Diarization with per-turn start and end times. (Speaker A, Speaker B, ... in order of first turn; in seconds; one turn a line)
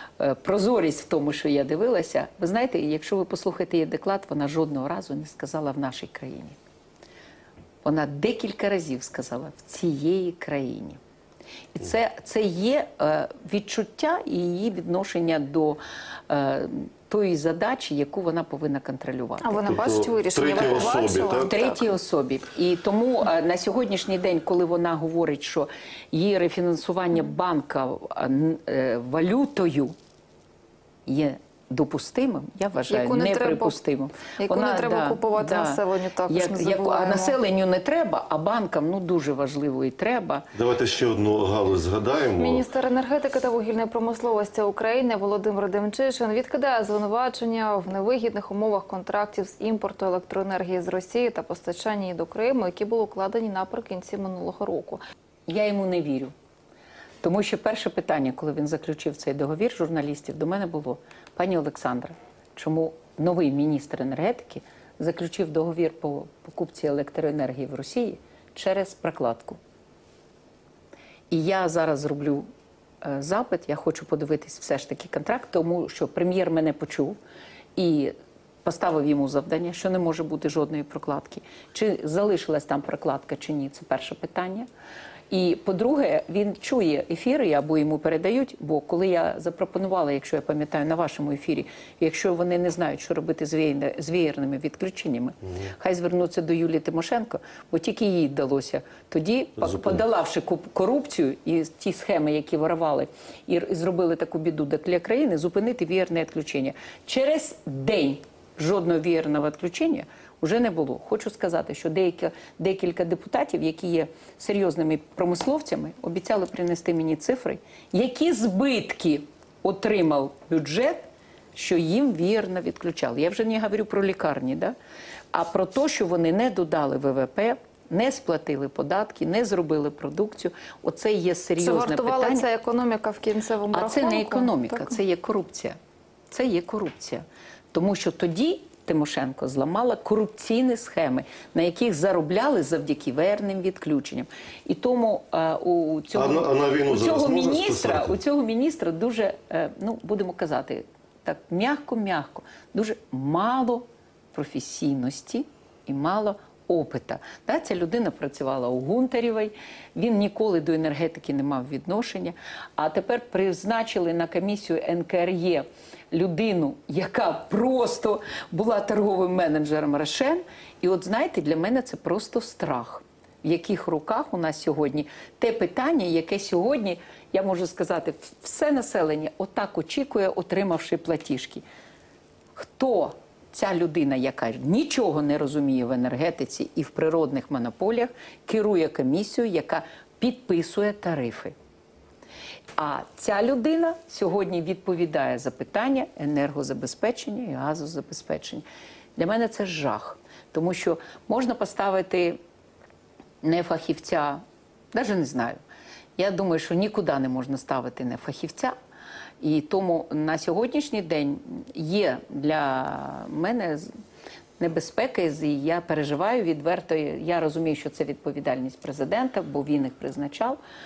Speaker A: 0.2-6.6
Speaker A: 7.8-11.0
Speaker A: 11.7-19.8
Speaker B: 19.4-21.9
Speaker C: 19.7-21.5
Speaker A: 21.4-29.9
Speaker A: 31.1-40.5
Speaker B: 32.9-33.8
Speaker B: 34.4-37.4
Speaker C: 40.5-42.7
Speaker B: 42.4-55.0
Speaker A: 55.5-56.3
Speaker A: 57.2-69.6
Speaker A: 71.3-72.5
Speaker A: 73.0-77.2
Speaker A: 77.8-78.1
Speaker A: 78.6-84.7
Speaker A: 85.3-124.8
Speaker A: 125.3-132.5
Speaker B: 131.6-135.0
Speaker A: 133.7-135.8
Speaker A: 136.3-181.6
Speaker C: 146.1-148.2
Speaker A: 182.6-191.6
Speaker A: 192.8-202.4
Speaker A: 203.4-204.4
Speaker A: 204.9-205.6
Speaker A: 206.2-208.8
Speaker A: 209.4-213.9
Speaker A: 214.6-220.6